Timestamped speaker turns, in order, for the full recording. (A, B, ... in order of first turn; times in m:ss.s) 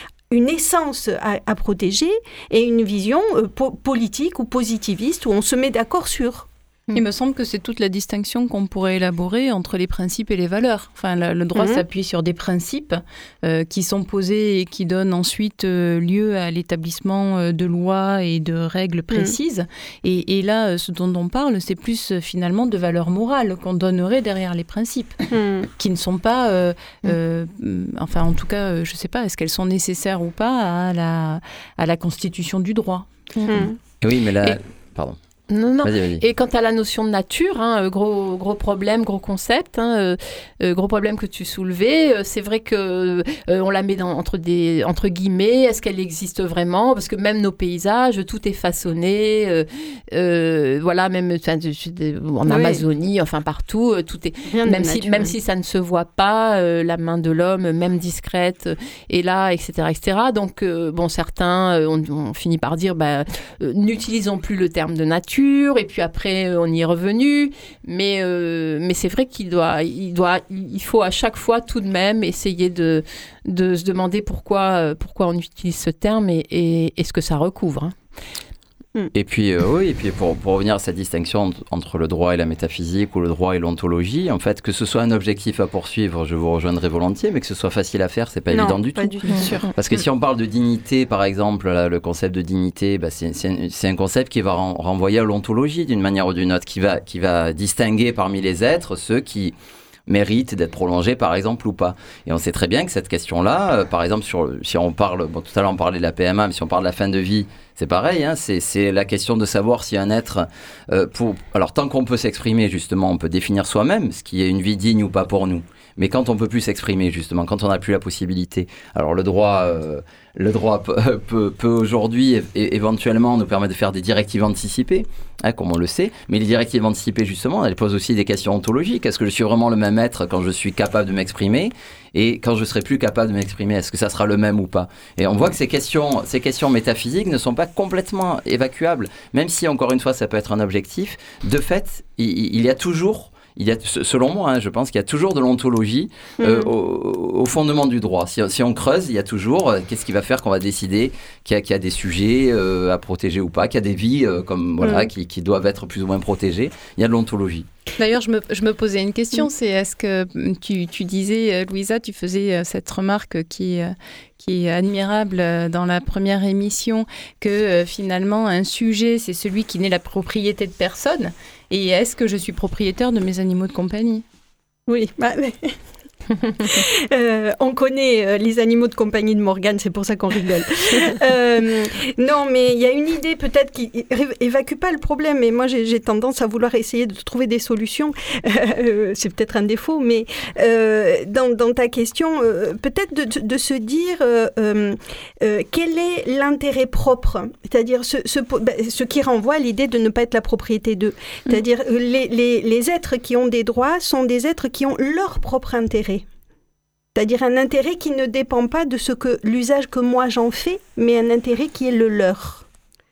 0:00.3-0:06.5 A
0:06.9-0:25.2 B
0:11.5-0:11.8 A
0:25.3-0:25.7 A
0:25.8-0:33.1 B
0:33.4-0:33.7 C
0:33.5-0:33.8 A
0:33.5-0:35.2 D
0:35.5-1:17.9 C
0:35.8-0:36.2 D
0:52.4-0:52.8 A
0:54.5-0:55.3 A
1:19.1-1:39.5 D
1:28.5-1:29.7 A
1:29.3-1:29.7 C
1:40.1-2:37.7 D
2:26.4-2:26.7 A
2:34.8-2:35.1 A
2:38.0-2:54.2 B
2:54.9-2:55.8 A
2:56.6-3:26.2 A
3:27.1-3:32.6 A